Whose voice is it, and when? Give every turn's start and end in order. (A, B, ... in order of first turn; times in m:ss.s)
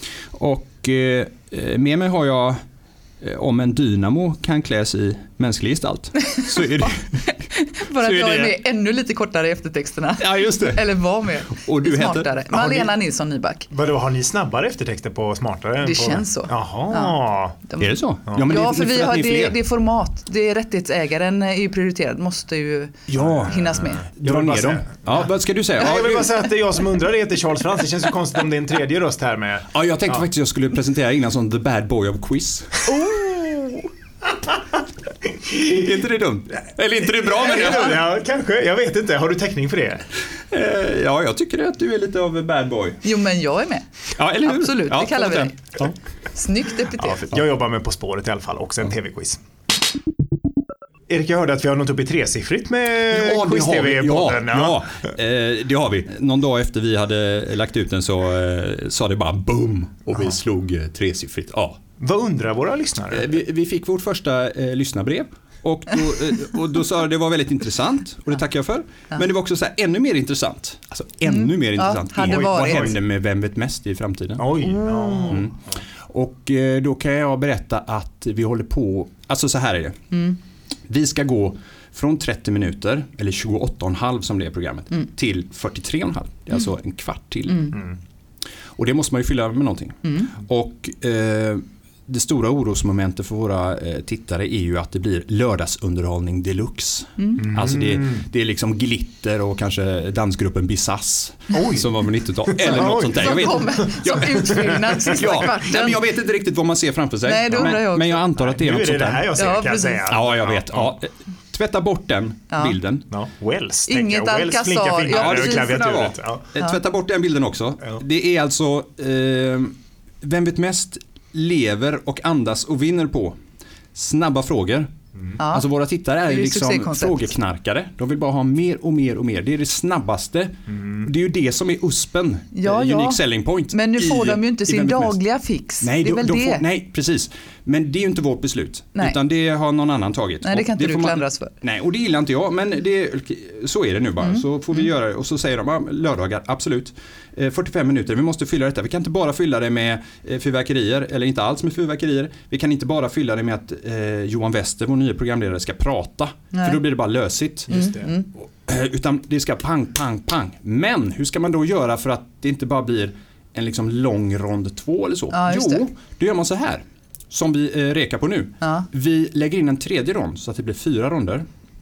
0:00.3-0:02.6 A
0:03.2-0:07.3 A
0:06.7-0:13.7 B
0:08.0-0:08.6 A
0:10.2-0:11.0 A
0:11.5-0:12.9 A
0:13.7-0:17.6 C
0:15.8-0:24.1 B
0:17.8-0:19.6 A
0:23.1-0:26.3 A
0:23.2-0:30.3 C
0:29.7-0:32.9 A
0:32.9-0:33.9 B
0:35.5-0:35.8 C
0:35.6-0:38.1 A
0:37.0-0:40.0 C
0:40.4-0:43.0 A
0:43.0-0:43.9 B
0:44.2-0:45.9 A
0:44.4-0:45.8 B
0:46.3-0:47.3 B
0:47.0-0:49.4 C
0:51.1-0:54.8 C
0:53.1-1:01.8 A
1:02.0-1:03.3 C
1:03.1-1:14.7 A
1:11.3-1:13.0 B
1:12.2-1:13.0 C
1:14.4-1:15.8 C
1:14.8-1:15.4 B
1:15.3-1:15.6 A
1:16.1-1:20.2 A
1:20.1-1:20.4 B
1:20.9-1:27.8 A
1:27.5-1:27.8 B
1:28.8-1:49.3 A
1:30.0-1:30.3 B
1:37.2-1:37.5 B
1:37.5-1:38.2 C
1:41.5-1:45.5 C
1:42.8-1:46.1 B
1:47.2-1:48.3 B
1:48.4-1:51.0 C
1:49.4-1:50.1 B
1:50.1-1:53.0 A
1:52.5-1:52.8 B
1:53.1-1:56.5 C
1:53.9-1:55.9 B
1:55.1-2:03.4 A
2:03.9-2:15.2 A
2:05.4-2:05.7 B
2:06.2-2:07.4 B
2:12.5-2:16.6 B
2:15.8-2:37.8 A
2:20.4-2:21.6 B
2:24.2-2:24.5 B
2:36.5-2:36.8 B
2:37.7-2:38.1 C
2:37.7-2:38.3 B
2:38.3-2:51.5 A
2:45.3-2:45.9 B
2:48.6-2:48.9 B